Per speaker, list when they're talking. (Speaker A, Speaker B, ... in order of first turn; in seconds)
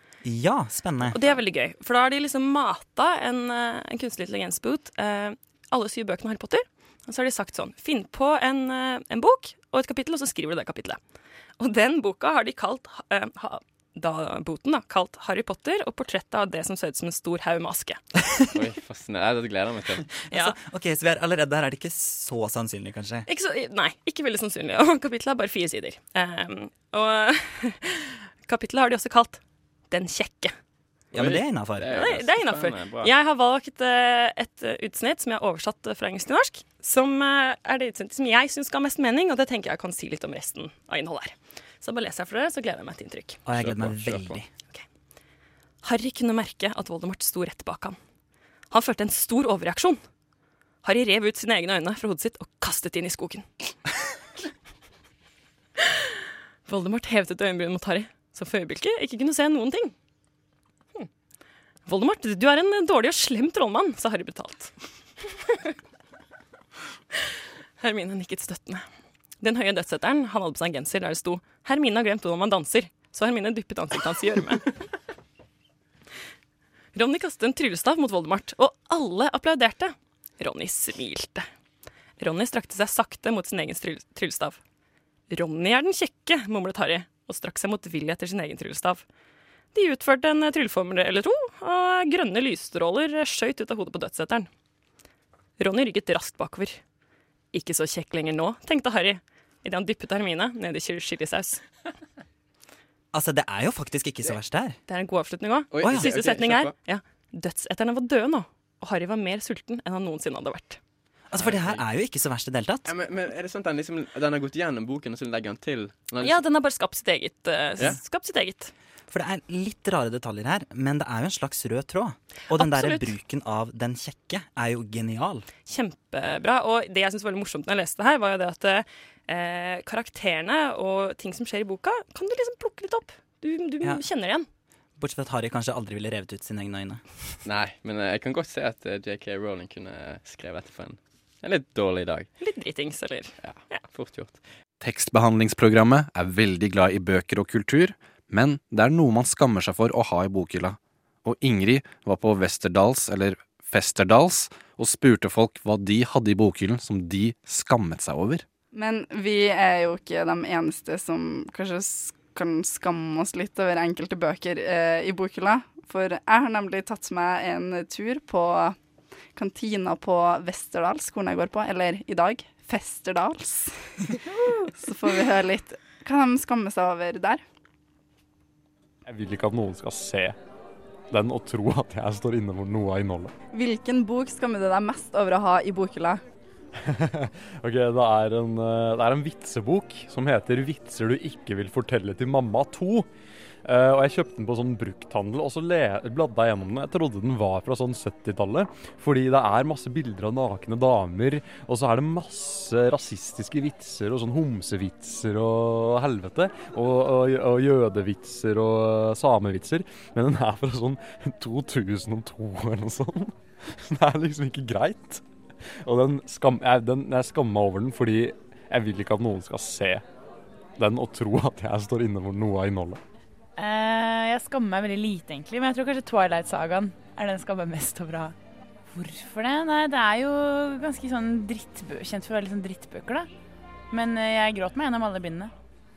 Speaker A: 0.2-1.4, 20.2-23.3, 31.1-32.0, 43.5-44.5, 103.1-104.8, 105.8-106.1, 111.3-112.9, 119.1-125.5, 135.0-137.0
Speaker B: 1.1-11.0, 11.6-18.0, 20.3-20.6, 23.3-30.6, 31.9-43.4, 45.8-48.0, 48.7-50.0, 50.8-53.5, 56.7-59.9, 61.9-64.7, 65.2-65.7, 67.8-68.8, 69.4-74.7, 76.9-81.5, 82.2-84.6, 85.3-89.0, 89.7-94.5, 95.6-96.8, 97.5-101.6, 104.9-110.8, 116.2-118.7, 122.5-123.1, 125.7-134.5, 142.4-143.8
Speaker C: 18.5-20.1, 31.1-33.1, 43.5-44.4, 105.7-106.8, 111.4-111.9, 112.8-116.4, 137.4-142.3, 143.4-144.4
Speaker D: 144.8-158.4
Speaker E: 158.7-168.8, 169.3-174.1, 174.7-177.4, 183.5-186.2
Speaker F: 179.1-180.4, 181.1-183.3, 186.8-193.1, 193.7-215.2, 215.8-220.0, 220.8-223.0
Speaker G: 223.6-228.3, 228.9-233.3, 233.9-235.5